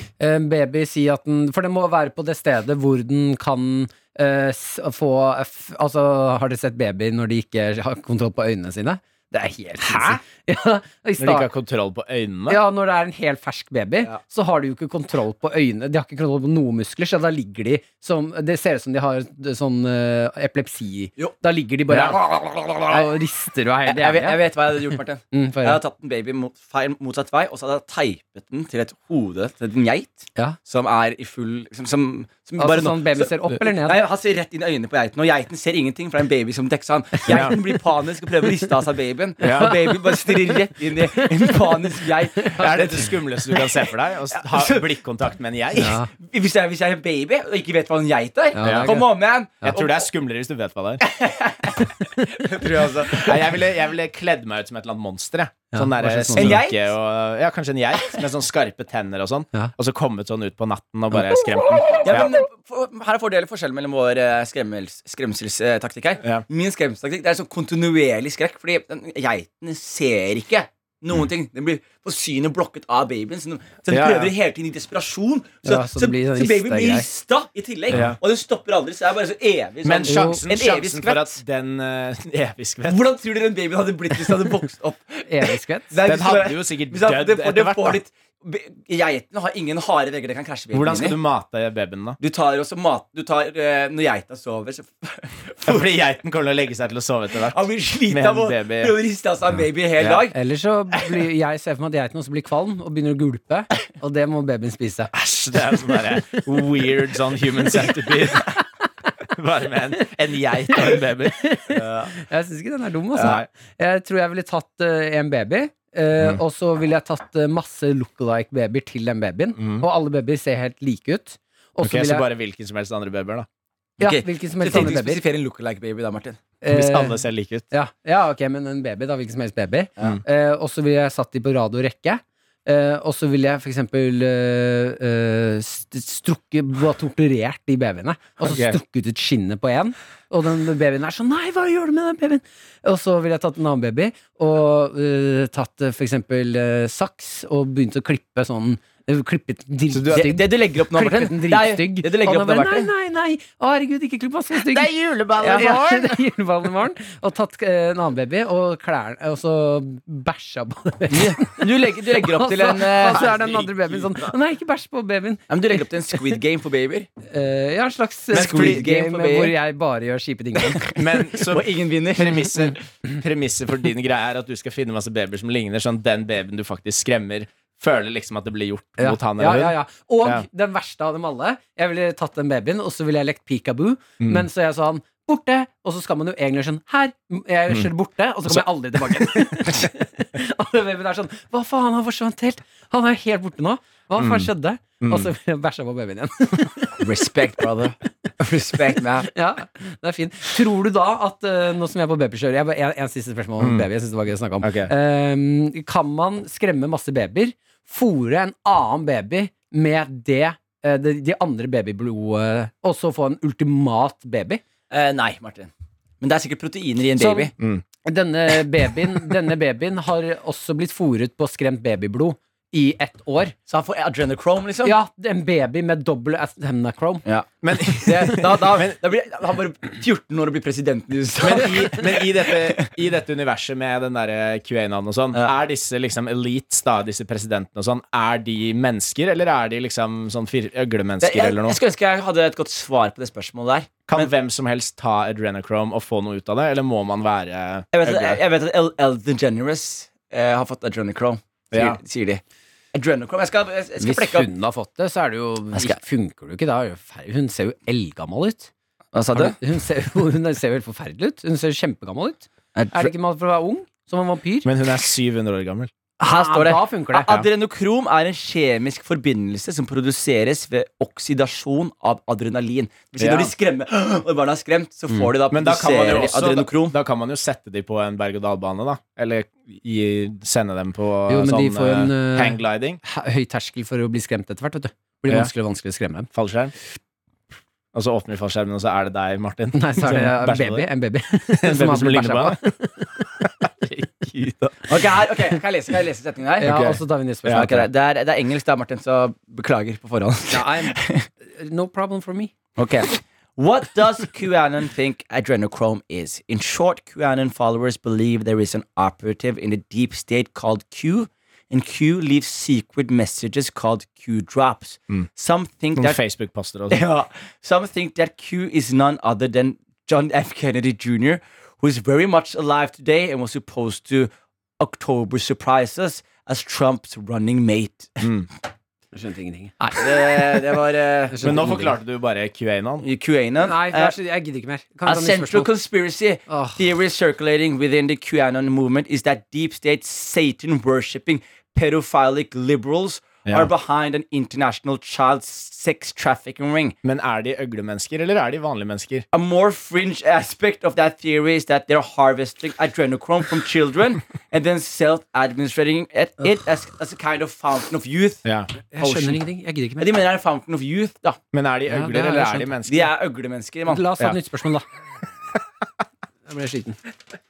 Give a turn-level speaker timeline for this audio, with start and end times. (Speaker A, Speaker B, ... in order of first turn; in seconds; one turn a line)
Speaker A: 0.2-11.5
Speaker B: 9.8-10.2
Speaker B: 11.2-12.6
Speaker A: 12.5-24.4
Speaker B: 21.9-22.1
Speaker C: 22.3-23.1
Speaker C: 23.9-43.8
Speaker A: 25.3-25.8
Speaker A: 32.6-34.0
Speaker B: 37.3-37.6
Speaker B: 39.4-39.7
Speaker A: 39.6-40.5
Speaker B: 42.6-46.0
Speaker C: 44.3-44.9
Speaker A: 45.8-46.1
Speaker C: 46.1-50.1
Speaker A: 48.5-49.1
Speaker B: 48.6-48.9
Speaker B: 49.6-51.0
Speaker C: 51.0-53.6
Speaker B: 53.1-62.4
Speaker A: 55.7-56.6
Speaker C: 56.4-56.9
Speaker C: 62.0-81.4
Speaker B: 73.9-74.3
Speaker A: 75.7-77.1
Speaker B: 77.9-78.2
Speaker B: 79.8-83.0
Speaker A: 80.0-80.4
Speaker C: 82.9-91.2
Speaker A: 85.3-85.9
Speaker B: 86.0-88.0
Speaker B: 90.7-92.2
Speaker C: 92.2-96.0
Speaker B: 95.7-99.0
Speaker C: 97.4-100.4
Speaker B: 100.0-100.3
Speaker A: 100.3-105.1
Speaker B: 105.1-108.5
Speaker A: 106.1-106.4
Speaker B: 109.3-111.5
Speaker A: 111.4-122.3
Speaker C: 111.7-112.1
Speaker B: 113.2-113.5
Speaker B: 119.6-119.8
Speaker B: 121.8-123.5
Speaker A: 124.0-125.2
Speaker C: 124.0-126.4
Speaker A: 126.6-165.5
Speaker B: 126.7-127.7
Speaker B: 138.4-138.8
Speaker B: 149.9-150.3
Speaker C: 150.1-152.9
Speaker B: 154.7-156.2
Speaker C: 155.4-155.7
Speaker C: 161.1-163.5
Speaker B: 163.1-164.3
Speaker C: 165.5-167.1
Speaker A: 167.3-171.0
Speaker B: 168.3-168.8
Speaker C: 168.3-169.6
Speaker C: 170.7-172.7
Speaker B: 170.9-180.5
Speaker A: 179.0-197.1
Speaker B: 184.2-184.4
Speaker B: 188.5-189.9
Speaker B: 194.2-194.5
Speaker B: 195.0-195.3
Speaker C: 197.0-199.3
Speaker A: 199.2-214.6
Speaker B: 203.6-203.9
Speaker B: 204.6-204.9
Speaker C: 214.9-217.5
Speaker A: 217.2-217.5
Speaker B: 217.6-217.8
Speaker A: 218.1-223.6
Speaker C: 223.7-225.0
Speaker A: 224.8-227.2
Speaker C: 227.2-232.9
Speaker B: 227.6-228.9
Speaker B: 231.4-241.8
Speaker C: 241.2-244.3
Speaker B: 244.1-248.4
Speaker C: 247.9-252.4
Speaker B: 251.7-252.0
Speaker C: 252.9-254.5
Speaker A: 254.0-258.7
Speaker C: 259.1-259.6
Speaker A: 259.3-264.7
Speaker C: 262.8-263.1
Speaker B: 264.6-265.9
Speaker C: 266.2-277.0
Speaker A: 266.2-267.4
Speaker B: 273.2-273.5
Speaker B: 275.5-283.0
Speaker A: 281.3-286.3
Speaker B: 286.3-286.7
Speaker B: 287.9-290.9
Speaker A: 289.7-293.3
Speaker B: 291.5-292.6
Speaker B: 293.4-294.8
Speaker C: 294.9-296.8
Speaker A: 296.6-297.9
Speaker B: 296.6-297.8
Speaker C: 297.5-301.3
Speaker A: 300.5-302.5
Speaker C: 302.8-316.2
Speaker B: 316.0-317.0
Speaker C: 316.9-328.2
Speaker B: 328.2-328.5
Speaker A: 329.1-330.0
Speaker C: 329.8-331.9
Speaker A: 331.3-331.9
Speaker B: 331.4-333.1
Speaker C: 333.0-334.2
Speaker A: 333.6-335.7
Speaker C: 335.1-346.9
Speaker A: 336.5-336.8
Speaker B: 343.5-343.7
Speaker B: 347.0-349.2
Speaker C: 349.3-358.4
Speaker B: 358.4-358.7
Speaker A: 358.9-360.1
Speaker C: 359.0-359.4
Speaker C: 360.0-361.4
Speaker B: 361.5-363.1
Speaker A: 361.9-362.7
Speaker C: 362.9-364.0
Speaker A: 363.9-364.9
Speaker A: 366.5-367.0